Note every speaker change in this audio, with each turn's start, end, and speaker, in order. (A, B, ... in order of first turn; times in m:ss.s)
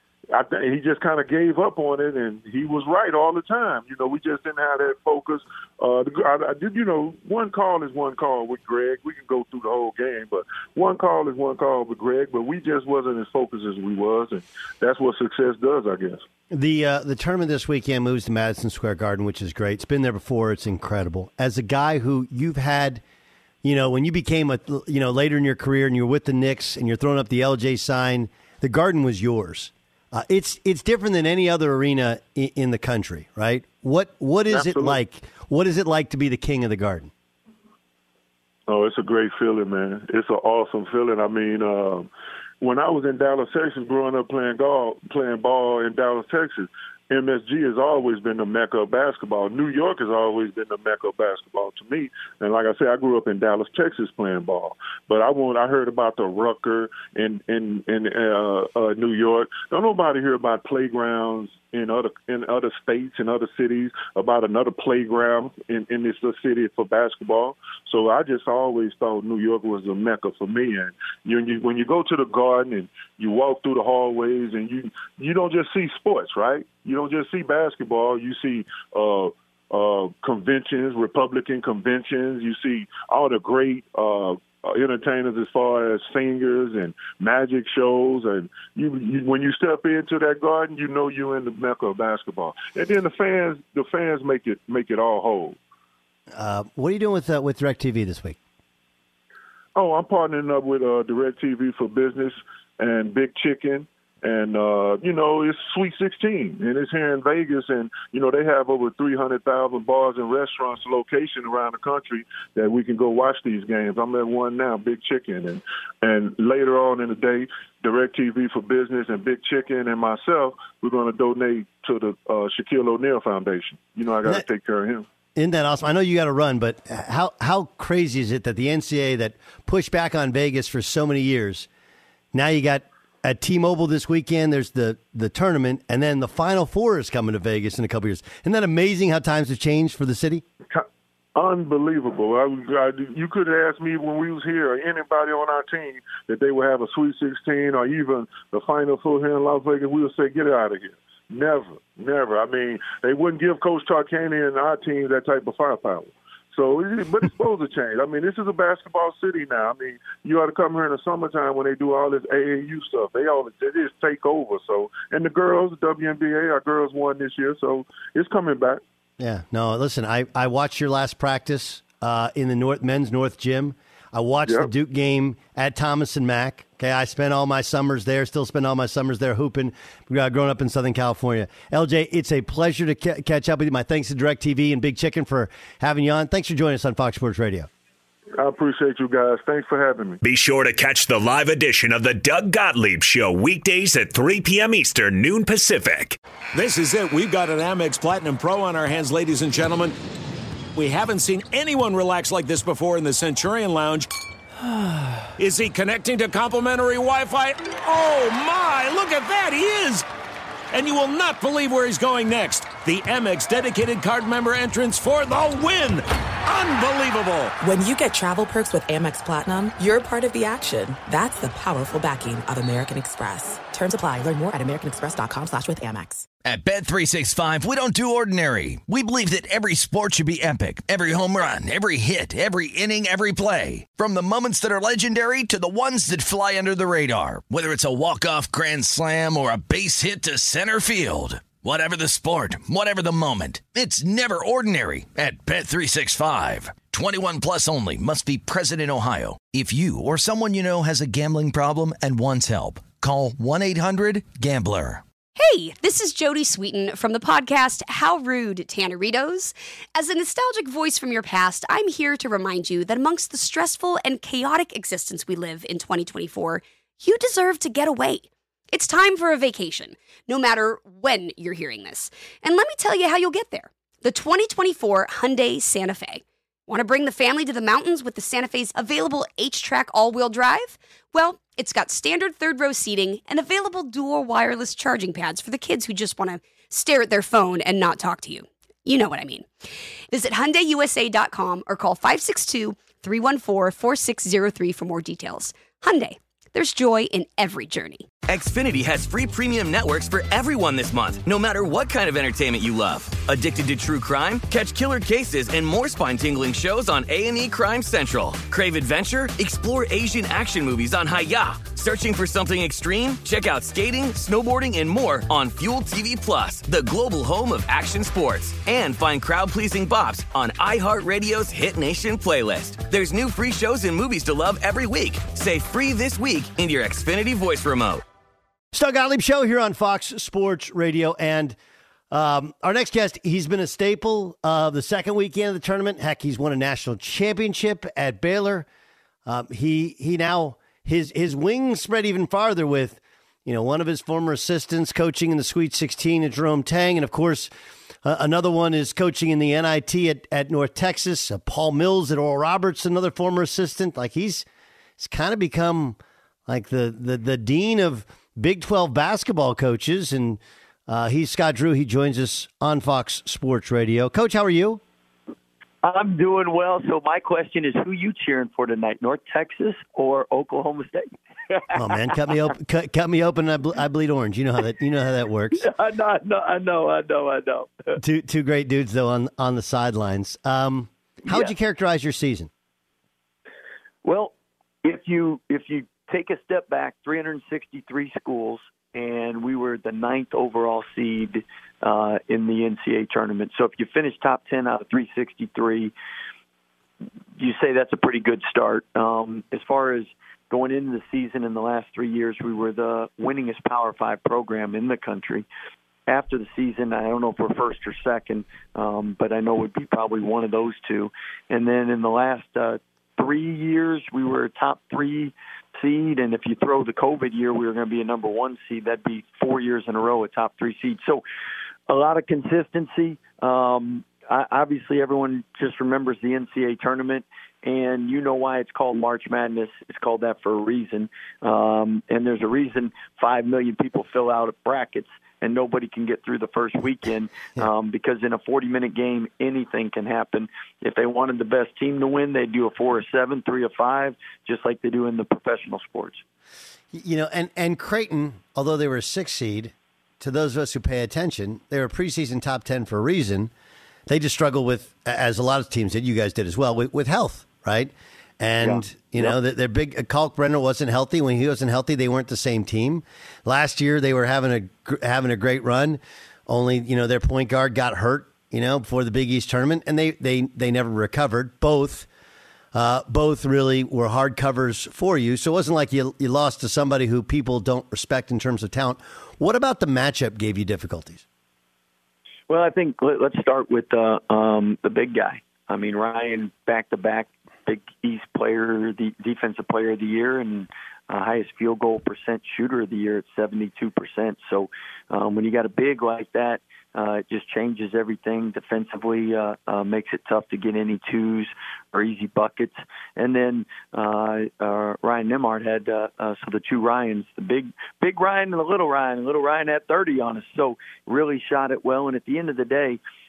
0:00.3-0:16.2 A
0:16.5-0:23.0 B
0:23.6-0:37.1 B
0:34.5-0:35.0 A
0:38.7-0:42.1 A
0:42.6-1:35.6 A
1:36.3-1:38.4 B
1:39.7-2:05.0 A
2:05.3-2:11.7 B
2:12.3-2:20.4 B
2:20.7-2:48.8 A
2:49.2-3:07.7 B
3:08.4-3:10.2 A
3:10.2-3:16.2 C
3:16.5-3:20.0 D
3:20.7-3:24.1 D
3:25.4-3:30.1 D
3:30.7-3:37.5 D
3:37.6-3:46.2 E
3:46.4-4:15.0 F
4:15.4-4:49.5 G
4:50.1-4:58.1 G
4:58.3-5:28.0 H
5:28.7-5:31.6 B
5:32.1-5:38.7 B
5:39.2-5:47.5 B
5:48.0-5:54.4 B
5:55.0-6:04.8 B
6:05.8-6:11.7 I
6:11.7-6:15.7 B
6:15.6-6:17.9 I
6:18.0-6:22.5 B
6:24.0-6:35.9 I
6:37.4-6:45.5 I
6:46.1-7:01.2 I
7:01.9-7:26.2 I
7:26.9-7:33.5 B
7:34.1-7:52.1 B
7:38.6-7:39.3 I
7:52.7-8:01.2 B
8:02.5-8:33.0 I